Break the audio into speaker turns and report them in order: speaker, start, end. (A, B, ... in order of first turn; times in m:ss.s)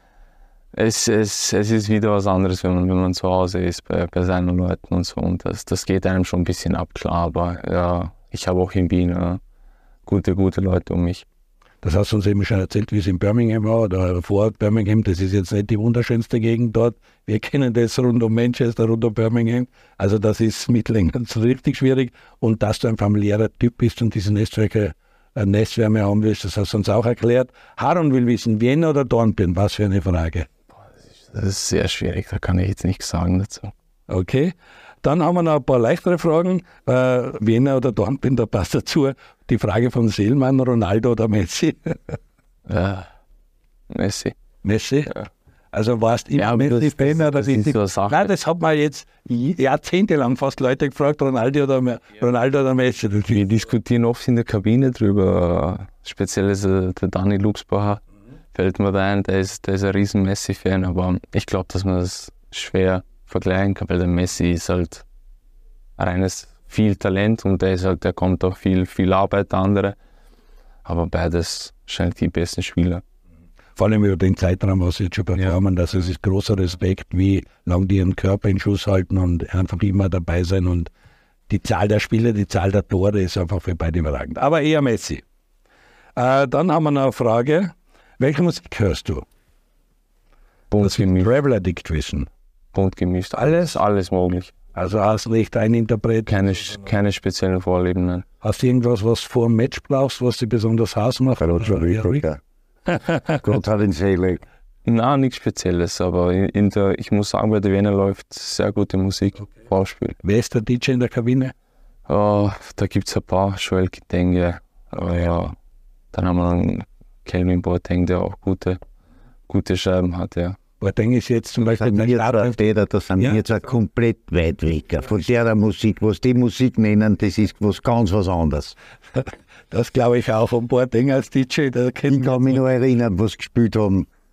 0:00.7-0:09.4 A
0:10.0-0:11.2 A
0:11.8-0:30.5 B
0:31.3-0:33.7 A
0:34.1-0:42.2 B
0:42.7-0:43.1 A
0:43.9-0:44.3 A
0:44.6-0:45.1 B
0:45.7-0:53.4 B
0:46.4-0:48.3 A
0:53.3-0:58.0 A
0:58.5-1:05.0 A
1:06.0-1:10.0 A
1:10.8-1:13.0 A
1:13.8-1:20.9 B
1:21.5-1:25.2 B
1:26.2-1:29.2 B
1:30.7-1:31.3 A
1:30.8-1:32.3 B
1:32.7-1:34.5 A
1:33.4-1:33.8 B
1:34.7-1:36.3 B
1:36.3-1:38.2 A
1:38.4-1:42.2 B
1:41.4-1:42.4 C
1:42.9-1:43.4 B
1:43.4-1:44.4 C
1:44.8-1:50.2 A
1:50.2-1:51.5 B
1:52.1-1:55.6 A
1:56.1-1:58.8 A
1:59.5-2:00.6 A
2:00.8-2:02.6 B
2:01.7-2:08.7 C
2:09.2-2:12.6 B
2:12.1-2:14.1 C